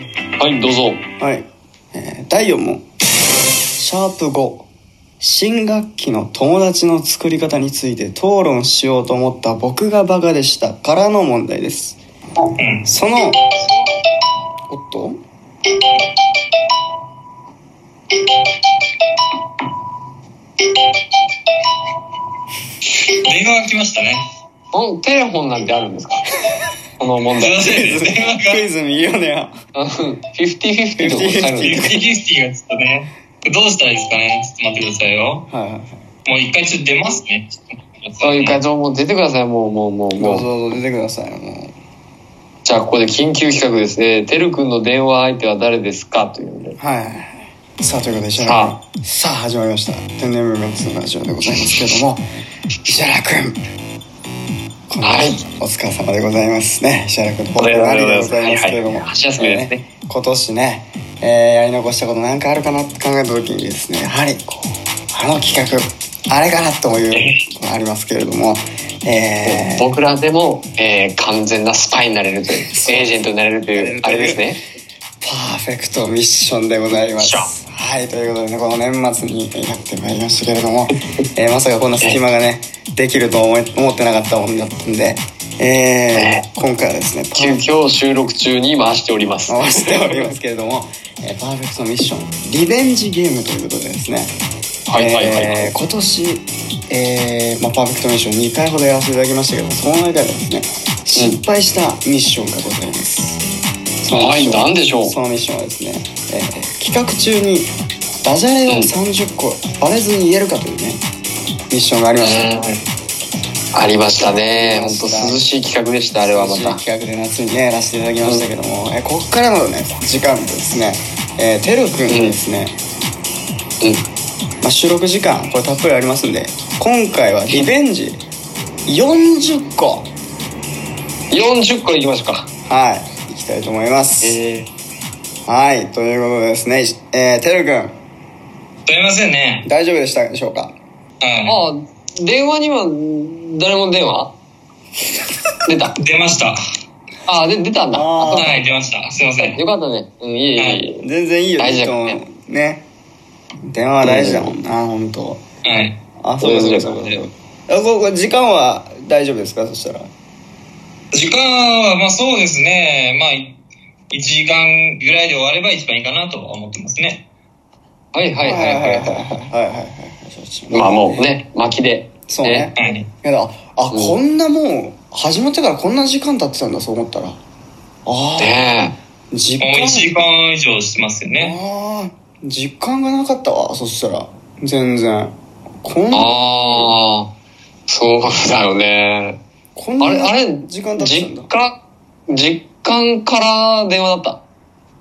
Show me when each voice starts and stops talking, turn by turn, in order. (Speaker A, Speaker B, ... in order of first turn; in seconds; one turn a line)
Speaker A: 0.4-1.0
Speaker B: 1.2-2.8
Speaker B: 3.8-4.7
Speaker B: 5.2-12.0
Speaker C: 12.6-12.9
Speaker B: 12.8-13.4
Speaker B: 14.7-15.2
Speaker C: 23.2-24.2
Speaker A: 24.7-26.2
Speaker A: 27.0-27.7
Speaker C: 27.4-28.7
Speaker B: 27.6-29.5
Speaker A: 29.8-32.0
Speaker B: 31.0-32.0
Speaker C: 31.6-35.5
Speaker B: 35.5-36.1
Speaker C: 36.3-38.6
Speaker A: 38.2-40.5
Speaker B: 40.2-41.7
Speaker A: 42.6-46.8
Speaker B: 46.8-52.2
Speaker A: 48.4-48.8
Speaker B: 52.8-53.6
Speaker B: 54.9-69.9
Speaker A: 55.0-55.4
Speaker A: 57.6-59.8
Speaker A: 67.1-67.4
Speaker A: 69.4-74.6
Speaker B: 72.5-73.2
Speaker B: 73.8-74.5
Speaker B: 75.2-87.7
Speaker A: 77.1-77.5
Speaker A: 86.1-86.5
Speaker A: 87.4-90.3
Speaker B: 89.5-94.3
Speaker A: 94.9-95.7
Speaker B: 94.9-103.4
Speaker A: 101.1-101.4
Speaker B: 104.0-107.7
Speaker A: 104.1-105.1
Speaker B: 108.2-111.0
Speaker B: 111.7-112.6
Speaker A: 112.2-112.8
Speaker A: 113.7-116.8
Speaker B: 114.5-115.4
Speaker B: 116.1-122.8
Speaker A: 122.1-122.3
Speaker B: 124.6-128.2
Speaker B: 128.8-130.1
Speaker A: 131.3-132.5
Speaker B: 132.7-134.4
Speaker A: 134.2-134.7
Speaker B: 135.5-137.9
Speaker C: 138.8-139.7
Speaker B: 139.7-140.8
Speaker C: 141.2-141.6
Speaker A: 141.5-144.3
Speaker A: 145.7-146.0
Speaker C: 146.0-146.6
Speaker A: 147.3-148.7
Speaker B: 147.9-148.6
Speaker C: 148.3-149.6
Speaker A: 149.4-151.0
Speaker C: 150.6-150.8
Speaker B: 151.0-152.8
Speaker A: 151.6-152.2
Speaker B: 153.7-155.4
Speaker A: 154.0-154.5
Speaker C: 155.6-156.0
Speaker B: 156.2-160.1
Speaker A: 156.4-157.2
Speaker C: 161.1-163.6
Speaker C: 164.1-167.2
Speaker A: 168.1-169.3
Speaker B: 168.4-171.3
Speaker A: 170.7-172.7
Speaker B: 172.3-177.4
Speaker C: 172.8-173.1
Speaker A: 173.9-174.2
Speaker B: 178.1-178.6
Speaker A: 178.4-179.0
Speaker B: 179.3-180.1
Speaker C: 179.6-181.6
Speaker B: 181.4-186.9
Speaker A: 186.1-187.3
Speaker A: 187.9-189.4
Speaker B: 189.8-191.5
Speaker A: 190.0-194.4